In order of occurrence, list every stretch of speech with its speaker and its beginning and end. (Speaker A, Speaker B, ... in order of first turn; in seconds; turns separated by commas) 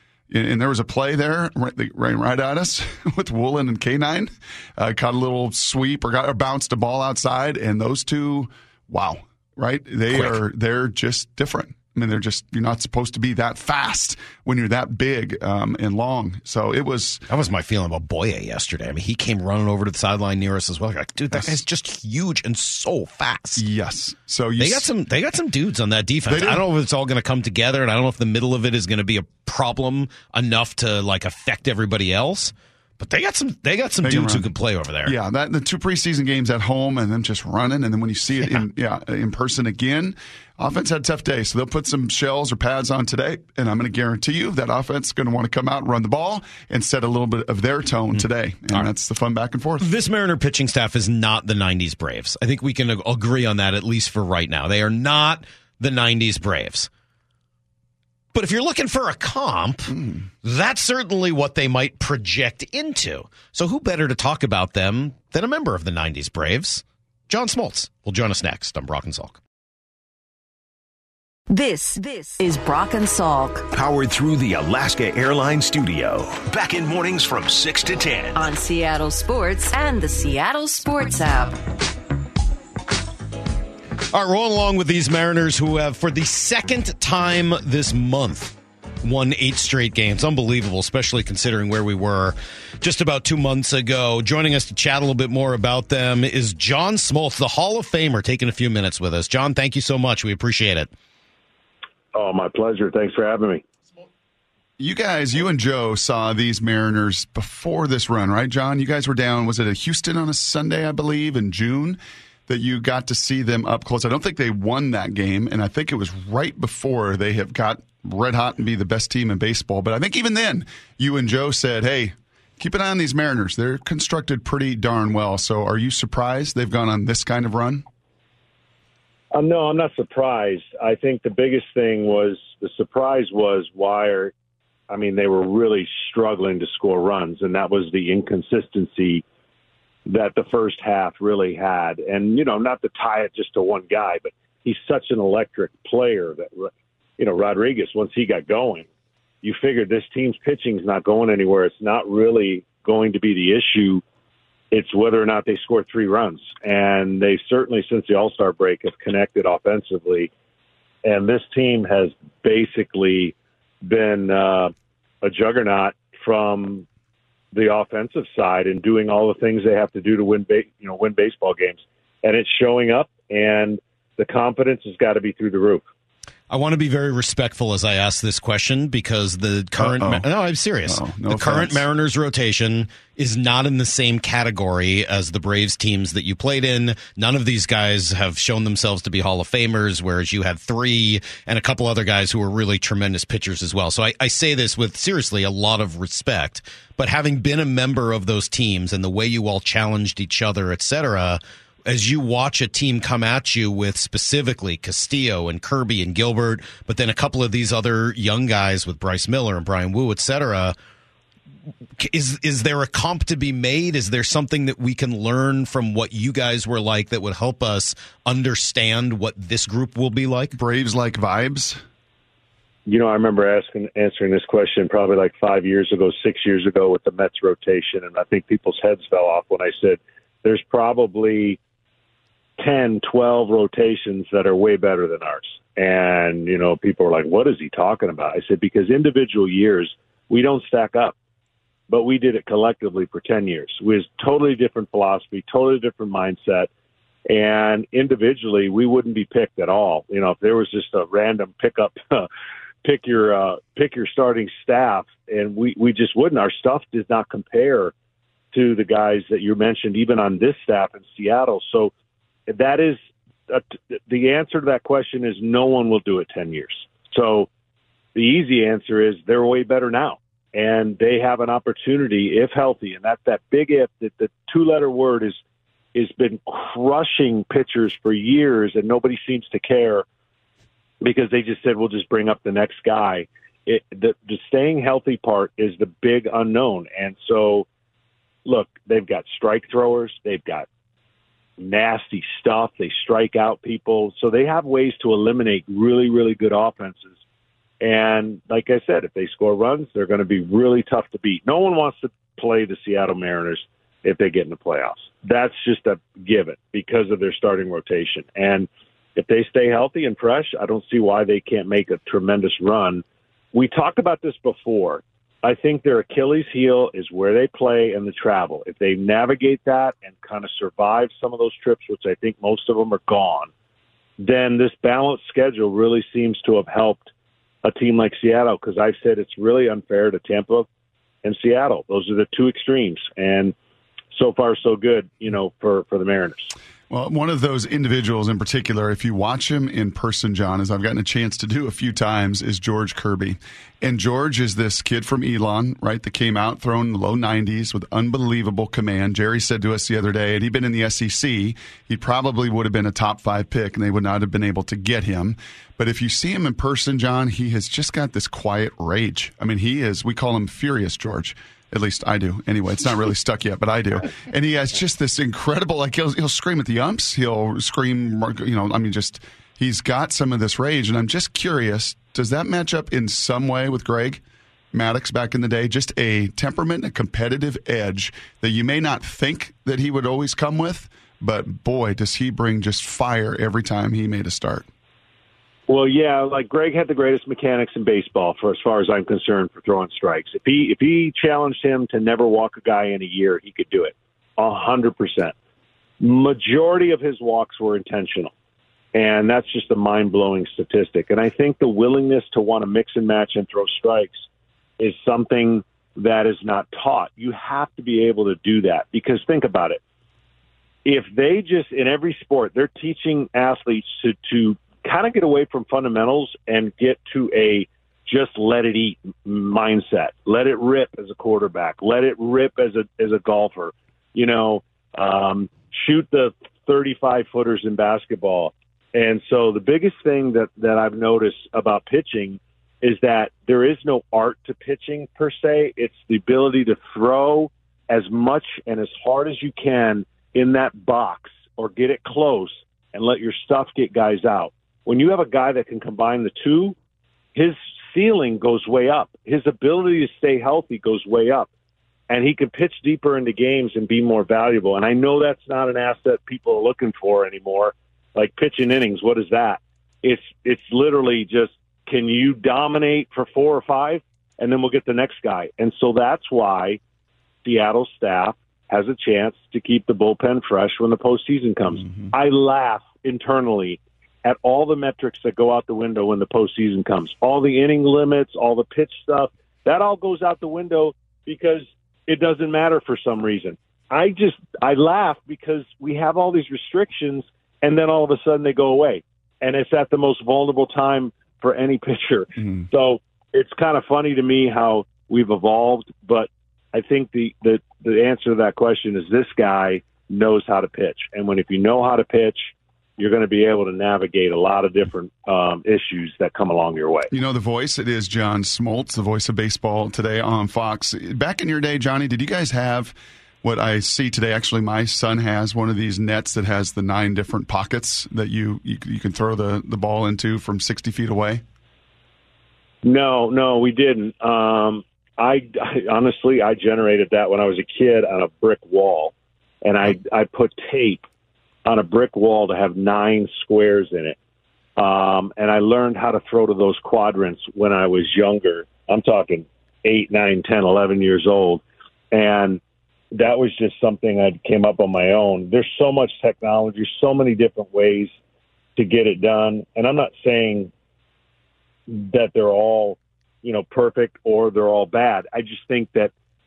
Speaker A: 0.3-17.3, Speaker B: 10.1-10.4, Speaker B: 17.3-23.6, Speaker A: 21.3-21.6, Speaker A: 23.6-24.9, Speaker B: 24.6-35.1, Speaker A: 26.3-26.6, Speaker A: 34.0-34.5, Speaker A: 35.0-49.9, Speaker B: 48.1-48.9, Speaker B: 49.8-56.9, Speaker B: 58.3-69.4, Speaker A: 59.9-60.3, Speaker C: 71.5-73.7, Speaker D: 73.7-78.4, Speaker C: 78.3-81.6, Speaker B: 84.1-100.9, Speaker E: 102.1-103.6, Speaker A: 104.8-127.8, Speaker E: 129.3-134.3, Speaker E: 134.9-139.2, Speaker E: 140.1-148.9, Speaker E: 149.4-154.0, Speaker E: 154.7-160.3, Speaker E: 161.0-166.9, Speaker E: 167.5-175.8, Speaker B: 176.5-210.8, Speaker A: 179.8-180.3, Speaker A: 180.9-181.8, Speaker B: 212.0-220.6, Speaker A: 220.5-221.8, Speaker E: 222.9-231.6, Speaker E: 232.6-241.2, Speaker E: 241.9-246.7, Speaker E: 247.3-252.3, Speaker E: 252.8-257.9, Speaker E: 258.5-261.9, Speaker E: 262.5-267.5, Speaker E: 268.1-275.4, Speaker E: 275.9-280.1, Speaker E: 281.0-287.7, Speaker E: 288.4-290.7, Speaker E: 291.6-297.1, Speaker E: 297.8-323.5, Speaker E: 324.2-327.1, Speaker E: 327.6-330.7, Speaker E: 331.2-333.5, Speaker E: 334.1-336.5, Speaker A: 336.9-374.2, Speaker A: 374.7-384.7, Speaker E: 385.7-395.3, Speaker E: 396.0-398.3, Speaker E: 398.9-404.3, Speaker E: 404.8-409.8, Speaker E: 410.9-446.8, Speaker E: 447.4-451.5, Speaker E: 452.1-466.8, Speaker E: 467.4-507.1, Speaker A: 507.1-521.4, Speaker E: 522.8-531.0, Speaker E: 531.6-534.2, Speaker E: 534.8-542.6, Speaker E: 543.1-548.1, Speaker E: 548.8-550.7, Speaker E: 551.9-556.1